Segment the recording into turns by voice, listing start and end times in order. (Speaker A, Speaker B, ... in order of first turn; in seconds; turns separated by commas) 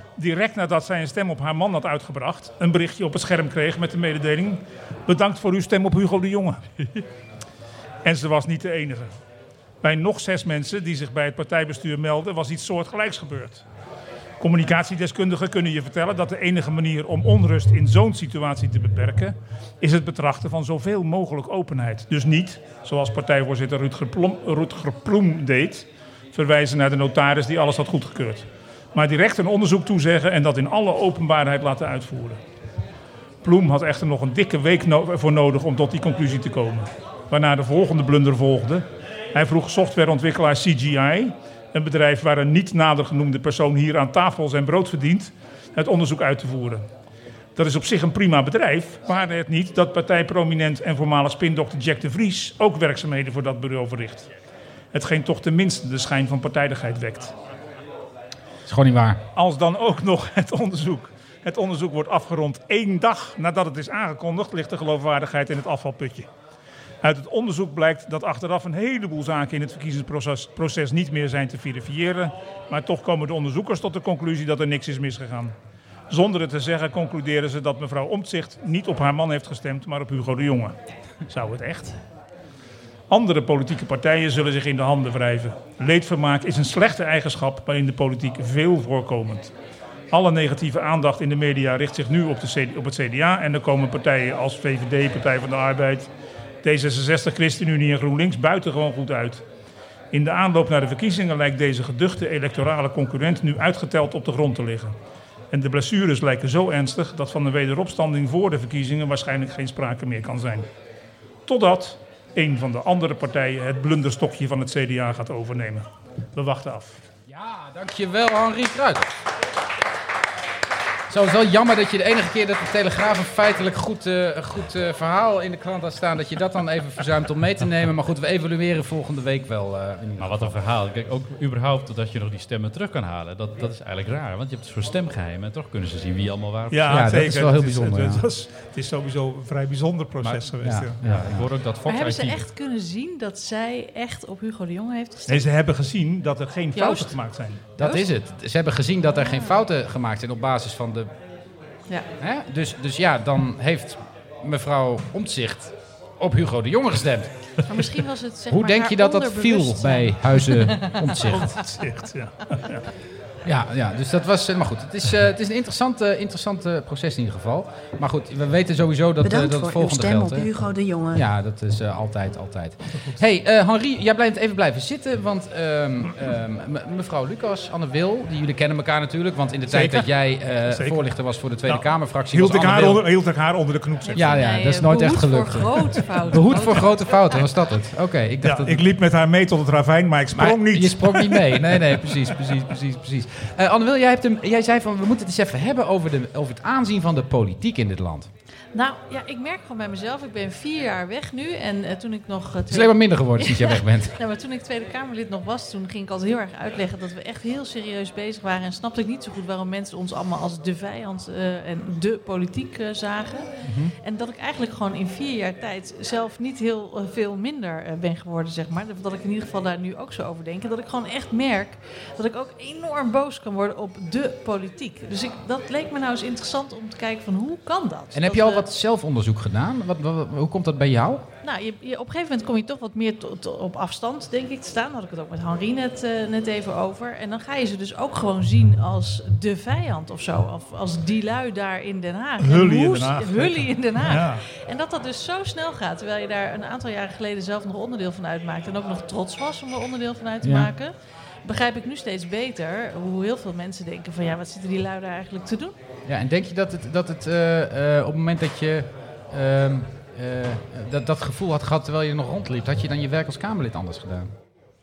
Speaker A: 0.2-6.6, Speaker A: 8.0-9.1, Speaker A: 9.8-13.6, Speaker A: 14.4-32.4, Speaker A: 33.4-46.9, Speaker A: 47.6-54.3, Speaker A: 54.9-57.4, Speaker B: 58.7-59.2, Speaker A: 59.4-66.3, Speaker A: 67.0-75.5, Speaker A: 76.1-80.8, Speaker A: 81.3-82.0, Speaker A: 83.1-89.5, Speaker A: 90.1-96.1, Speaker A: 96.6-99.4, Speaker A: 100.1-105.0, Speaker A: 105.5-110.7, Speaker A: 111.5-117.0, Speaker B: 117.3-119.1, Speaker B: 121.1-130.6, Speaker C: 130.2-136.9, Speaker A: 136.7-141.0, Speaker B: 136.9-138.2, Speaker B: 140.6-141.5, Speaker C: 141.0-142.5, Speaker D: 141.9-145.5, Speaker A: 145.3-147.6, Speaker D: 146.8-147.2, Speaker B: 147.8-151.1, Speaker D: 149.2-149.5, Speaker B: 152.2-157.3, Speaker D: 157.7-161.1, Speaker B: 158.5-161.5, Speaker A: 161.4-162.8, Speaker B: 163.4-170.5, Speaker E: 169.2-171.3, Speaker B: 171.1-183.1, Speaker A: 179.7-180.1, Speaker A: 180.7-181.0, Speaker A: 181.7-184.4, Speaker D: 184.0-187.1, Speaker B: 184.2-185.7, Speaker B: 186.3-188.8, Speaker A: 188.4-191.8, Speaker B: 190.3-198.3, Speaker D: 198.7-228.7, Speaker B: 202.7-204.2, Speaker B: 213.7-213.9, Speaker B: 228.1-231.2, Speaker D: 231.4-250.9, Speaker A: 242.4-244.4, Speaker B: 250.4-250.7, Speaker D: 251.4-255.8, Speaker B: 256.1-264.3